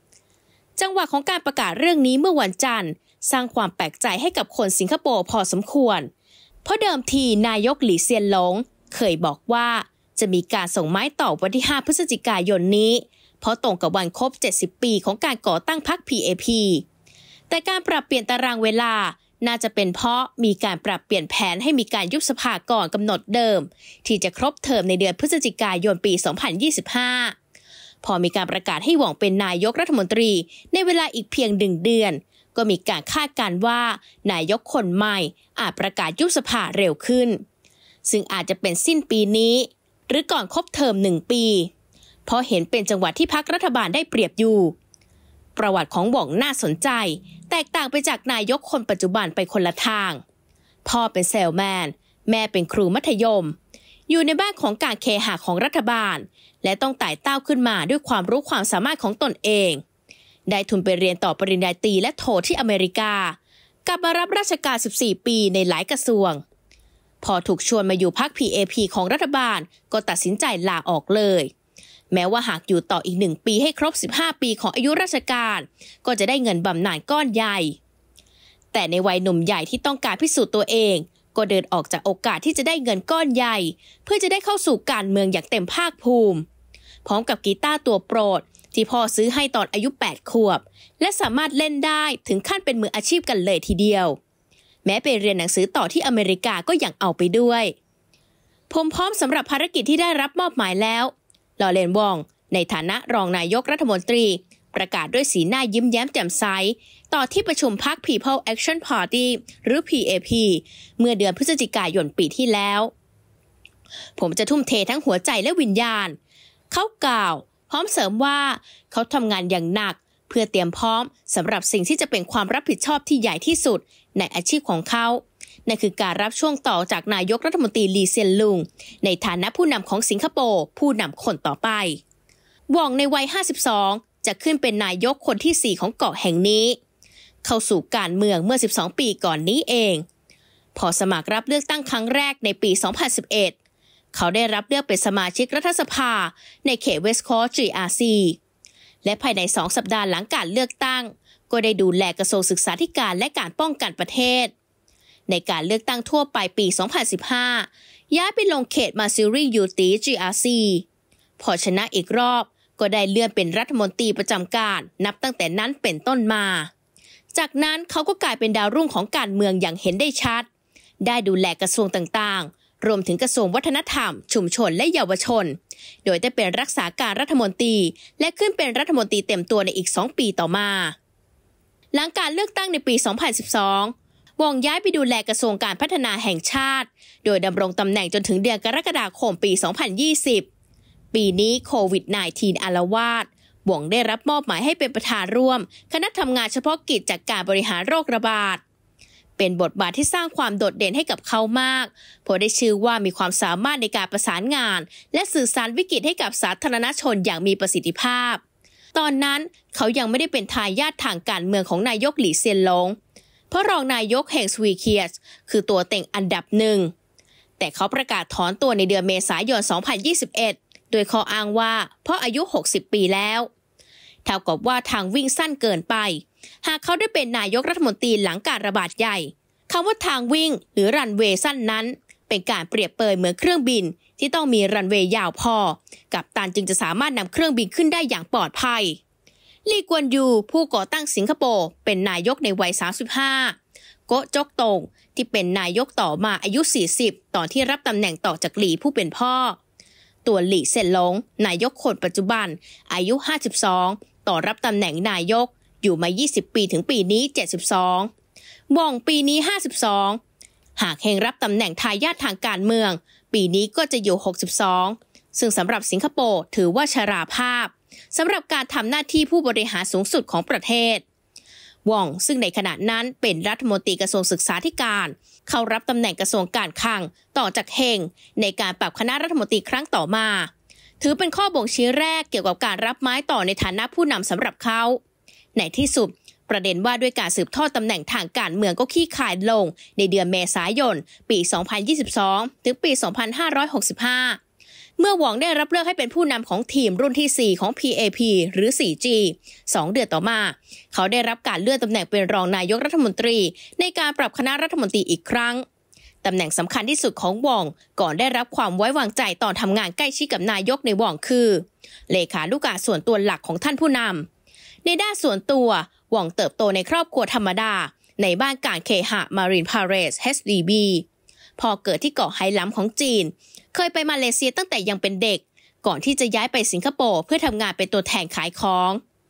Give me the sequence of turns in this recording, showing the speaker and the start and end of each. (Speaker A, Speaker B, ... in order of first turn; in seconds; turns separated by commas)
Speaker A: 0.8-6.1, Speaker A: 6.7-16.8, Speaker A: 17.5-27.4, Speaker A: 28.0-37.4, Speaker A: 38.0-41.7, Speaker A: 42.3-44.8, Speaker A: 45.6-50.2, Speaker A: 50.9-53.6, Speaker A: 54.1-59.8, Speaker A: 60.5-66.4, Speaker A: 67.2-71.5, Speaker A: 72.1-77.8, Speaker A: 78.7-86.5, Speaker A: 87.0-94.2, Speaker A: 94.8-97.8, Speaker A: 98.7-112.9, Speaker A: 114.2-116.2, Speaker A: 116.7-132.0, Speaker A: 132.7-136.8, Speaker A: 137.4-140.1, Speaker A: 140.8-143.6, Speaker A: 144.1-148.4, Speaker A: 149.0-154.5, Speaker A: 155.3-160.8, Speaker A: 161.4-166.7, Speaker A: 167.3-170.5, Speaker A: 171.0-180.9, Speaker A: 181.9-190.5, Speaker A: 191.1-198.6, Speaker A: 199.4-208.4, Speaker A: 208.9-213.0, Speaker A: 213.5-216.9, Speaker A: 217.6-223.5, Speaker A: 224.2-239.0, Speaker A: 239.7-243.6, Speaker A: 244.1-249.6, Speaker A: 250.2-258.1, Speaker A: 258.7-260.2, Speaker A: 260.8-271.0, Speaker A: 271.9-285.0, Speaker A: 285.6-294.4, Speaker A: 295.0-305.6, Speaker A: 306.2-314.3, Speaker A: 314.9-321.1, Speaker A: 321.6-329.0